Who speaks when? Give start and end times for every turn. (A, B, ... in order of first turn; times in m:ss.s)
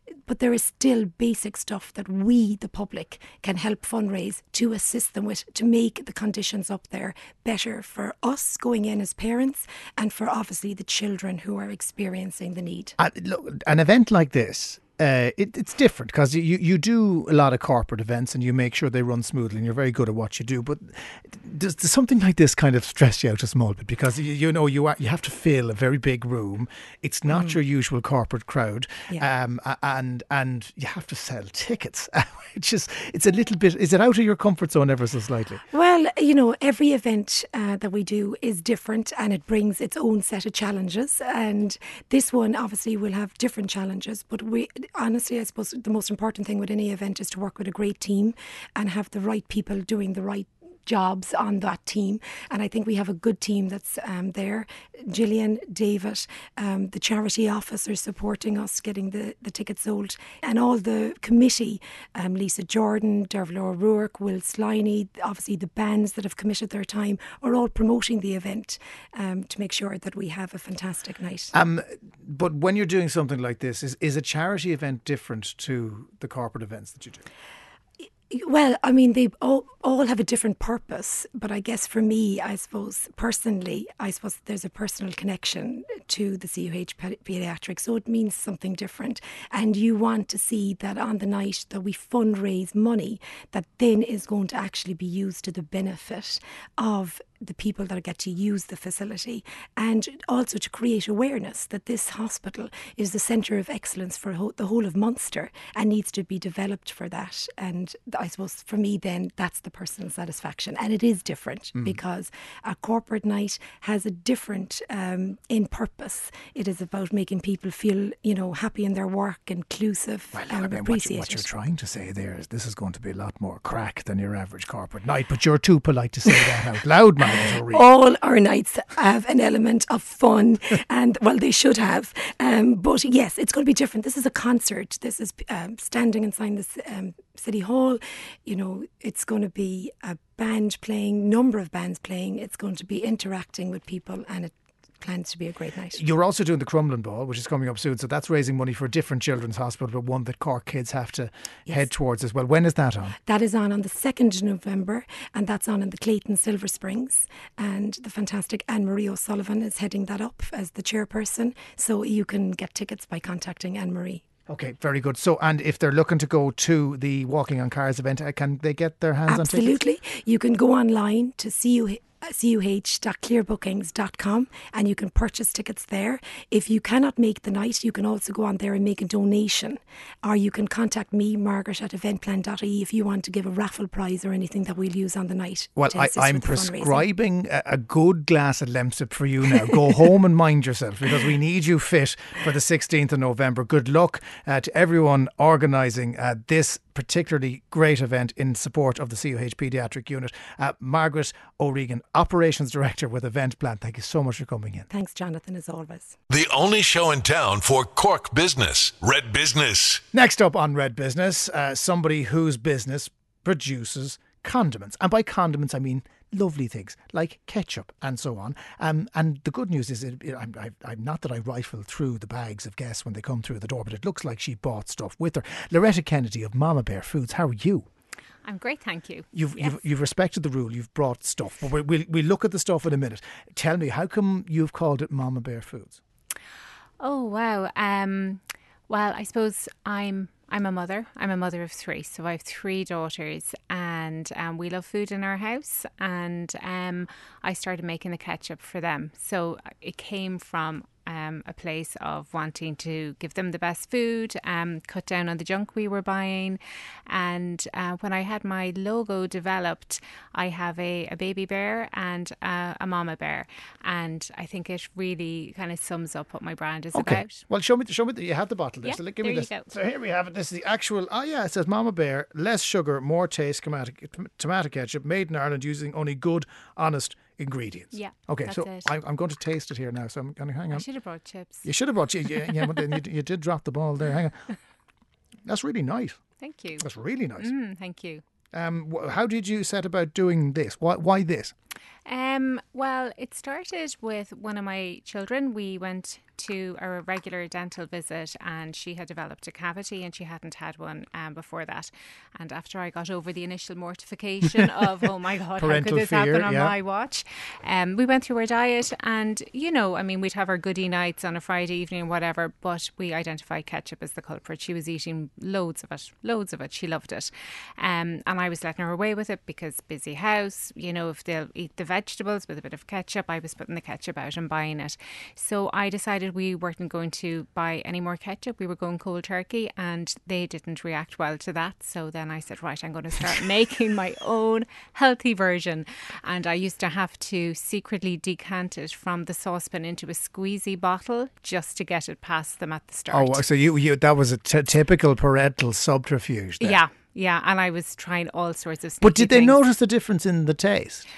0:00.3-0:13.0 A
0:13.0-0:35.6 B
0:35.7-1:11.5 A
1:11.5-1:17.2 B
1:18.3-2:01.4 A
2:00.3-2:07.8 B
2:07.6-2:26.0 A
2:26.0-2:33.2 B
2:33.3-2:44.2 A
2:44.5-2:49.8 B
2:49.3-3:07.1 A
3:05.8-3:24.9 B
3:24.9-3:26.2 A
3:26.3-3:30.0 C
3:30.1-3:47.9 B
3:48.4-3:49.8 D
3:49.3-3:56.0 B
3:57.0-4:27.5 D
4:26.9-4:40.8 B
4:28.8-4:29.7 D
4:37.9-4:38.9 D
4:40.7-4:41.7 D
4:41.6-4:44.4 B
4:45.5-4:46.2 B
4:46.4-4:48.2 D
4:46.8-4:47.5 B
4:48.5-4:51.5 B
4:52.1-5:43.4 D
5:05.6-5:06.7 B
5:43.1-5:46.8 B
5:46.6-5:49.6 D
5:49.0-5:51.0 B